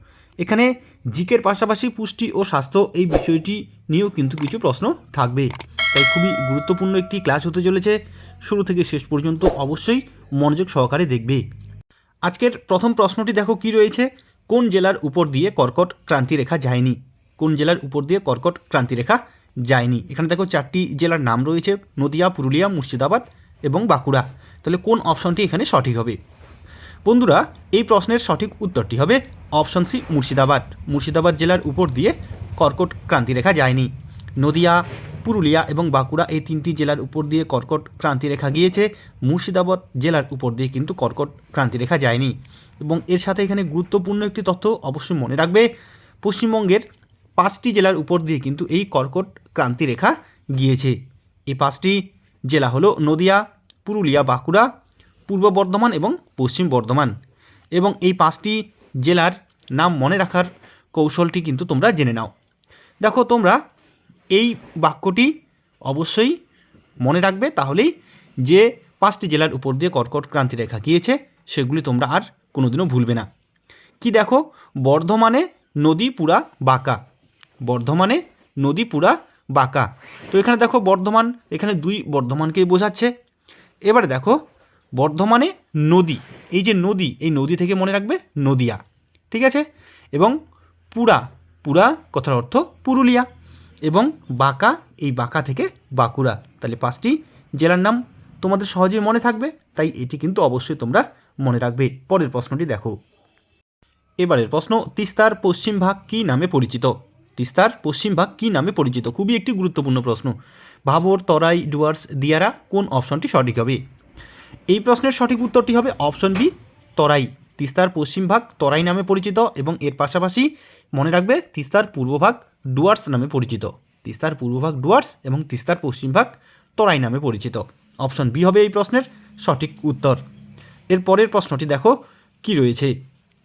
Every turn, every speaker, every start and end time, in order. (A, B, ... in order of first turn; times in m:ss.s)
0:00.4-0:11.4 A
0:12.2-0:26.2 A
0:27.0-0:45.7 A
0:46.2-0:46.8 A
0:47.4-0:51.0 A
0:51.5-0:54.7 A
0:55.3-0:57.1 A
0:57.8-1:02.3 A
1:03.0-1:03.6 A
1:04.3-1:05.3 A
1:05.9-1:06.4 A
1:07.0-1:07.9 A
1:08.4-1:13.3 A
1:14.0-1:17.0 A
1:17.6-1:23.1 A
1:23.9-1:24.4 A
1:25.0-1:30.4 A
1:30.9-1:33.3 A
1:33.9-1:42.9 A
1:44.2-1:50.3 A
1:50.9-1:53.8 A
1:54.7-2:10.2 A
2:10.9-2:13.0 A